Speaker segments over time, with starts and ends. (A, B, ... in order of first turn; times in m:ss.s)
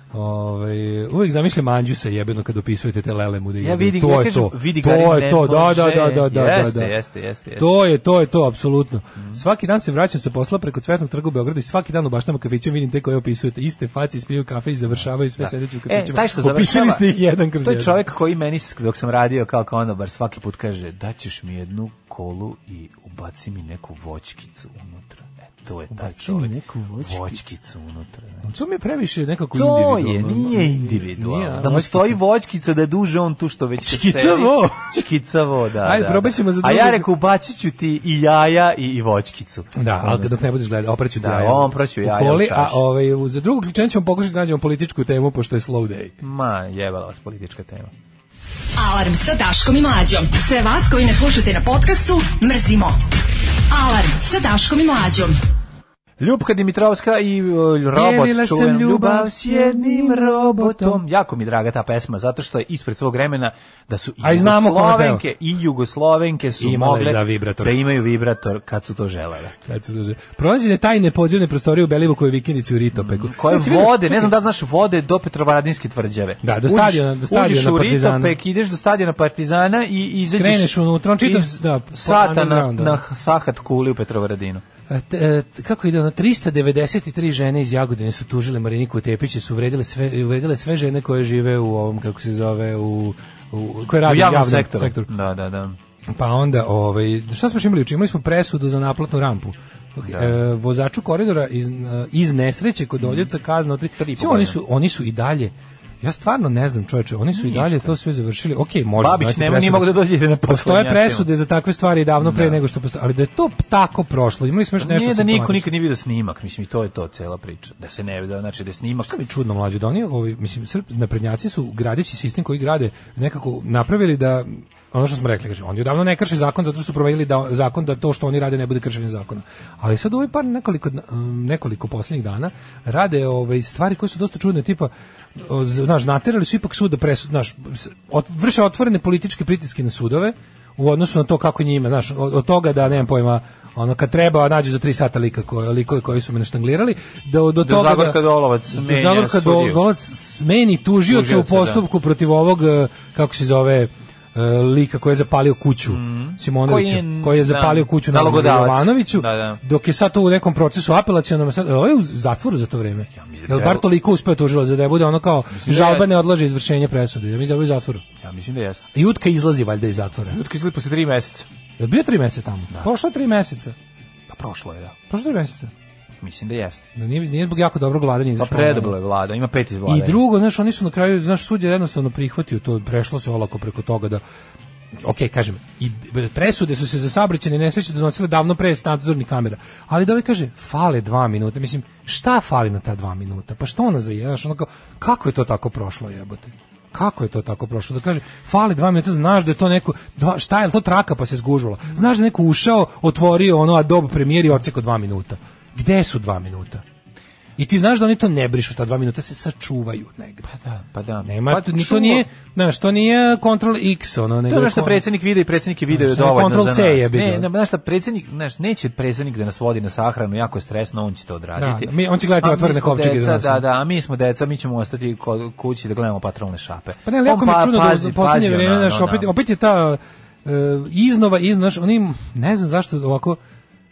0:00.1-0:06.9 A
0:03.6-0:07.7 B
0:07.6-0:18.0 A
0:15.4-0:17.0 B
0:17.6-0:28.5 B
0:25.9-0:27.5 A
0:28.4-0:32.2 A
0:29.5-0:40.3 B
0:33.8-0:35.1 A
0:35.8-0:37.1 A
0:39.8-0:46.1 A
0:41.2-0:42.8 B
0:46.2-0:47.9 B
0:48.8-0:53.0 C
0:53.7-0:55.4 C
0:56.2-1:09.6 B
0:57.9-1:01.0 A
1:04.2-1:05.2 A
1:06.6-1:07.8 A
1:09.6-1:14.3 A
1:12.9-1:24.6 B
1:16.4-1:18.4 A
1:20.3-1:23.0 A
1:24.9-1:35.1 A
1:34.0-1:35.8 B
1:36.1-1:55.7 A
1:40.0-1:40.4 B
1:43.0-1:43.3 B
1:44.0-1:44.6 B
1:47.3-1:48.0 B
1:49.0-1:51.3 B
1:52.2-1:52.6 B
1:54.8-1:59.1 B
1:59.0-2:48.0 A
2:27.6-2:29.8 B
2:31.1-2:31.8 B
2:35.9-2:39.6 B
2:43.1-2:43.8 B
2:45.5-2:46.1 B
2:48.2-2:48.8 B
2:48.9-2:50.4 A
2:50.3-2:51.5 B
2:51.8-2:53.8 A
2:54.3-2:55.0 B
2:55.1-2:55.7 A
2:56.2-2:56.8 B
2:57.0-2:59.0 A
2:58.4-3:00.2 B
2:59.8-3:04.2 A
3:05.0-3:26.8 A
3:27.6-3:30.5 A
3:30.5-3:32.2 B
3:31.2-3:35.0 A
3:34.5-3:49.3 B
3:35.9-3:37.5 A
3:41.6-3:43.6 A
3:47.0-3:53.4 A